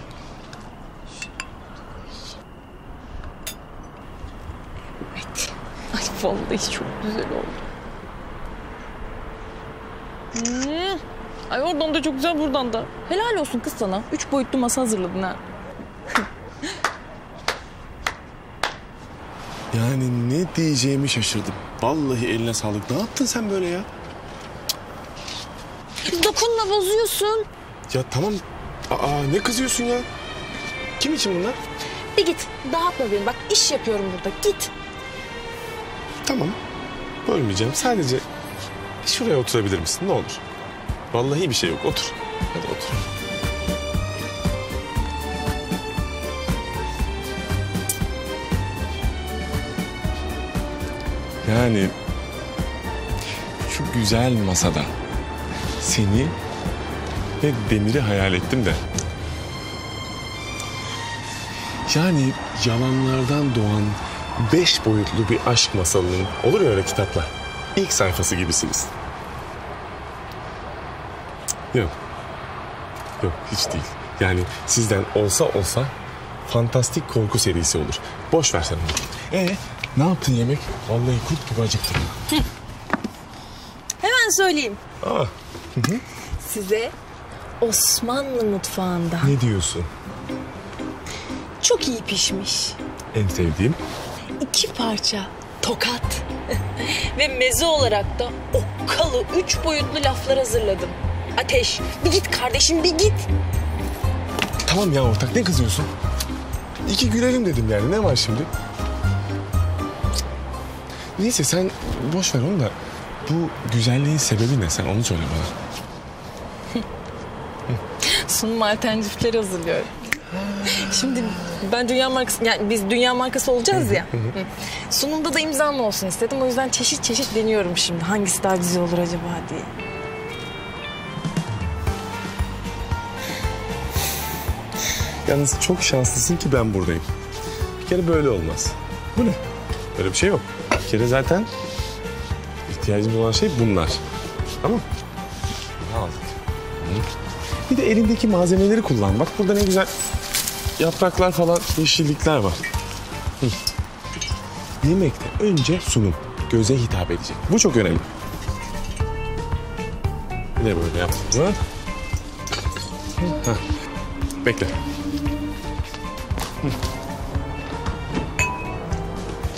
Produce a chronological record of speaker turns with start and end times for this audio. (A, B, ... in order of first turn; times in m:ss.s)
0:05.1-0:07.6 A
0:10.3-0:15.4 A
0:19.7-0:23.9 B
0:26.0-0:27.4 A
0:27.9-0:30.1 B
0:31.0-0:31.6 B
0:32.2-0:34.7 A
0:36.2-0:36.6 B
0:37.2-0:38.2 B
0:39.0-0:40.4 B
0:41.1-0:43.1 B
0:51.4-0:51.9 B
0:53.6-0:54.9 B
0:55.8-0:56.4 B
0:57.4-0:58.8 B
1:01.9-1:08.9 B
1:13.2-1:15.9 B
1:16.4-1:22.2 B
1:24.0-1:24.8 A
1:25.0-1:26.0 B
1:26.4-1:26.9 A
1:27.6-1:29.3 A
1:29.2-1:29.9 B
1:31.6-1:32.8 A
1:33.1-1:33.8 B
1:34.4-1:43.2 A
1:44.6-1:45.9 B
1:46.8-1:48.5 B
1:51.2-1:55.5 B
1:58.0-1:59.9 A
2:00.3-2:00.9 B
2:00.6-2:09.7 A
2:03.7-2:04.3 B
2:15.2-2:17.0 B
2:17.8-2:19.4 B
2:19.9-2:21.5 B
2:22.7-2:24.0 B
2:25.8-2:27.1 B
2:27.7-2:29.9 B
2:30.8-2:32.6 B
2:34.8-2:38.1 B
2:40.6-2:41.6 B
2:43.2-2:43.6 B
2:44.4-2:44.8 B